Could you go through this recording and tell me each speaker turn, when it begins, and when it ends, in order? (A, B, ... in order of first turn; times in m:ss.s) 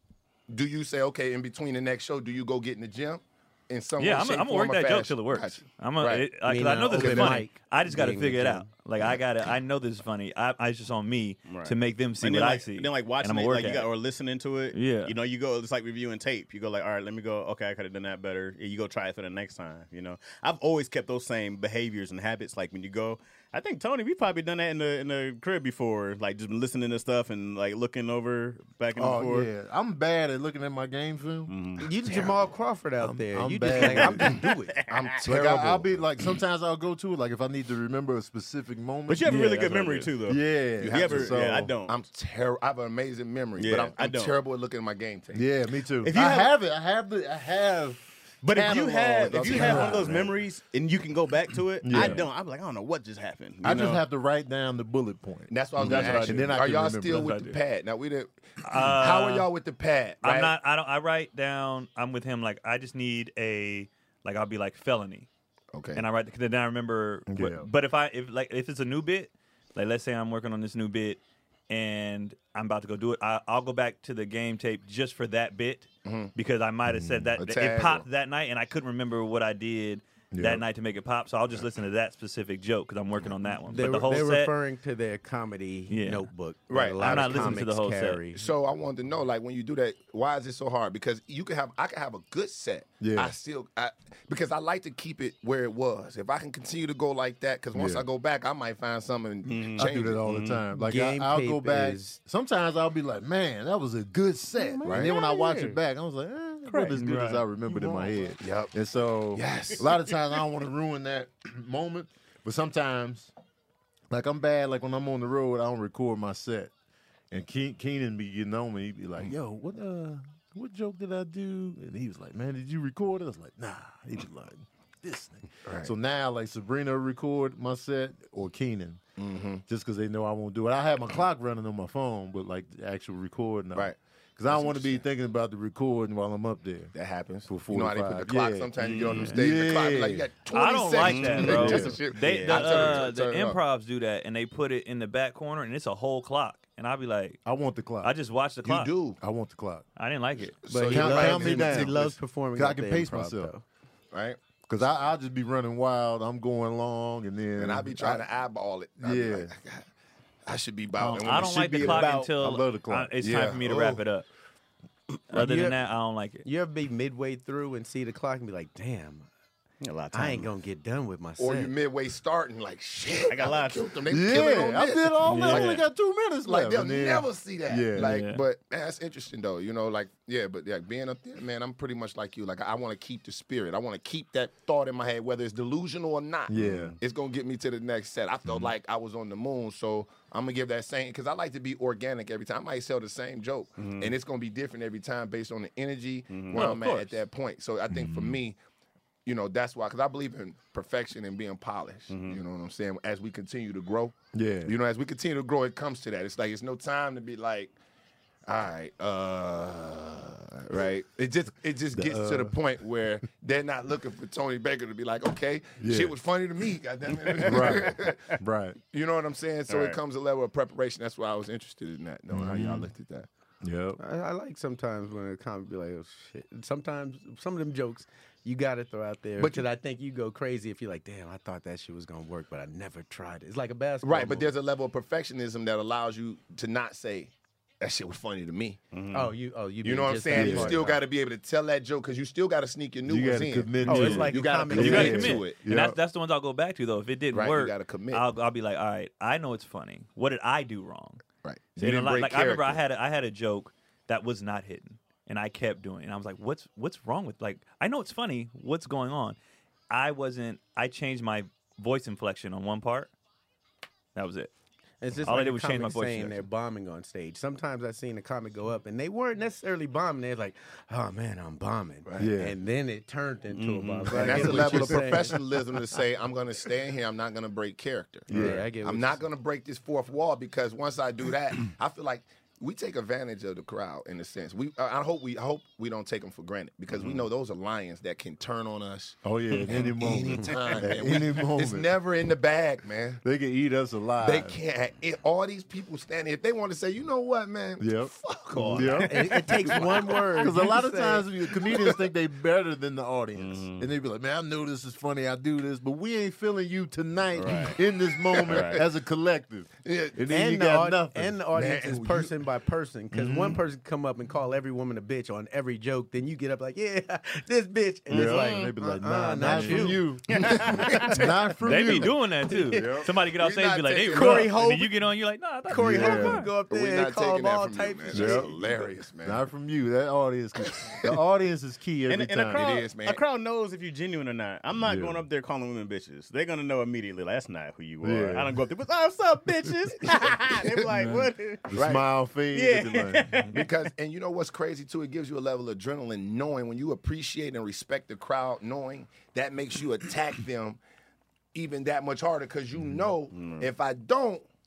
0:00.5-0:06.3 A
0:04.0-0:13.9 B
0:06.4-0:08.7 C
0:06.9-0:07.4 A
0:11.5-0:29.5 D
0:14.7-0:15.2 B
0:29.0-0:31.5 E
0:31.5-0:31.9 D
0:31.8-0:34.8 C
0:32.1-0:32.4 A
0:33.0-0:34.4 E
0:33.9-0:35.2 D
0:34.9-0:35.9 A
0:35.2-0:39.4 E
0:39.1-0:41.9 D
0:39.3-0:40.1 B
0:40.3-0:41.8 E
0:40.8-0:45.4 A
0:43.6-0:44.4 D
0:45.3-0:50.3 E
0:46.0-0:46.5 D
0:48.4-0:54.0 D
0:49.3-0:50.3 A
0:51.8-0:52.3 E
0:53.6-0:57.3 E
0:55.5-1:00.5 A
0:55.8-0:56.5 B
0:57.1-0:57.6 B
0:58.6-0:59.5 B
1:00.2-1:05.3 B
1:05.7-1:06.0 A
1:05.9-1:24.5 B
1:07.3-1:07.7 E
1:16.0-1:16.3 A
1:16.9-1:17.4 E
1:17.4-1:18.0 A
1:20.3-1:20.6 E
1:23.7-1:28.4 C
1:25.9-1:26.3 B
1:26.7-1:27.6 A
1:27.0-1:28.2 B
1:28.3-1:40.2 A
1:33.0-1:33.4 E
1:37.7-1:38.1 E
1:39.5-1:40.6 D
1:39.8-1:53.3 E
1:40.7-1:42.2 C
1:44.6-1:45.8 D
1:44.8-1:45.1 A
1:46.7-1:47.0 D
1:47.0-1:47.4 B
1:47.8-1:48.0 D
1:48.4-1:48.7 A
1:49.3-1:50.0 A
1:54.1-1:56.7 E
1:57.3-2:09.0 E
2:05.7-2:05.9 A
2:09.2-2:09.6 A
2:09.7-2:16.9 E
2:13.8-2:15.0 A
2:16.9-2:23.6 A
2:17.5-2:20.3 E
2:18.8-2:19.4 D
2:20.5-2:27.4 B
2:21.0-2:23.1 D
2:21.4-2:22.0 E
2:27.4-2:28.1 E
2:28.0-2:28.9 B
2:28.6-2:29.2 A
2:29.2-2:29.8 E
2:30.0-2:30.6 B
2:30.6-2:32.1 A
2:30.7-2:33.6 C
2:30.8-2:33.5 E
2:34.1-2:34.4 A
2:34.7-2:38.2 E
2:37.6-2:39.9 A
2:39.0-2:39.5 E
2:40.5-2:42.1 A
2:41.0-2:43.1 E
2:41.0-2:44.3 B
2:41.8-2:42.3 D
2:43.2-2:44.0 A
2:45.3-2:46.4 B
2:45.3-2:45.8 C
2:46.4-2:49.3 C
2:49.8-2:50.5 D
2:50.1-2:51.7 C
2:51.4-2:55.8 A
2:53.3-2:53.9 D
2:54.1-2:58.2 E
2:55.2-2:55.8 B
2:56.4-3:18.6 A
2:58.0-2:58.4 B
3:06.5-3:07.0 E
3:06.6-3:07.0 D
3:13.8-3:14.1 D
3:16.3-3:17.0 D
3:16.5-3:17.0 B
3:17.9-3:18.4 E
3:19.2-3:27.8 A
3:22.1-3:22.4 D
3:24.3-3:24.8 E
3:28.5-3:38.4 A
3:31.9-3:32.6 E
3:35.8-3:36.2 E
3:37.4-3:38.8 E
3:38.9-3:43.3 A
3:39.7-3:40.0 D
3:42.3-3:42.9 E
3:43.6-3:44.0 E
3:44.0-3:54.5 C
3:49.4-3:49.6 A
3:54.0-3:58.8 A
3:58.9-3:59.3 D
3:59.1-4:01.0 C
3:59.8-4:05.6 A
4:00.3-4:00.8 E
4:03.1-4:06.0 E
4:03.8-4:05.4 C
4:04.7-4:11.2 B
4:07.3-4:08.2 A
4:11.4-4:12.8 A
4:11.8-4:19.4 B
4:19.9-4:23.1 B
4:24.2-4:24.5 B
4:25.0-4:35.4 C
4:25.2-4:26.5 B
4:32.2-4:32.6 E
4:33.5-4:34.7 D
4:34.1-4:53.2 A
4:34.1-4:35.4 E
4:38.3-4:38.6 E
4:38.3-4:39.2 C
4:49.2-4:51.9 E
4:53.2-4:54.6 E
4:54.2-5:00.7 A
4:57.8-4:58.1 E
4:58.6-4:59.0 D
4:58.6-4:59.8 E
4:59.0-5:01.5 C
5:00.3-5:11.4 E
5:01.6-5:02.0 A
5:03.4-5:03.9 D
5:07.4-5:07.8 D
5:08.3-5:08.8 A
5:08.4-5:08.8 D
5:09.8-5:10.2 A
5:10.3-5:21.3 C
5:11.5-5:12.4 A
5:13.1-5:13.6 E
5:18.1-5:22.2 E
5:18.1-5:18.7 D
5:20.3-5:21.3 D
5:21.6-5:26.5 B
5:22.5-5:23.0 C
5:22.7-5:24.5 A
5:24.1-5:25.0 C
5:25.6-5:28.6 C
5:25.7-5:26.5 E
5:26.7-5:29.4 A
5:28.1-5:28.5 E
5:29.2-5:32.6 E
5:30.6-5:31.2 A
5:32.1-5:41.8 D
5:32.5-5:33.2 A
5:34.8-5:35.2 E
5:38.0-5:38.6 E
5:40.5-5:40.8 A
5:41.7-5:43.4 E
5:41.7-5:42.1 A
5:42.5-5:43.7 D
5:43.5-5:50.8 A
5:51.5-5:54.5 A
5:53.3-5:53.7 D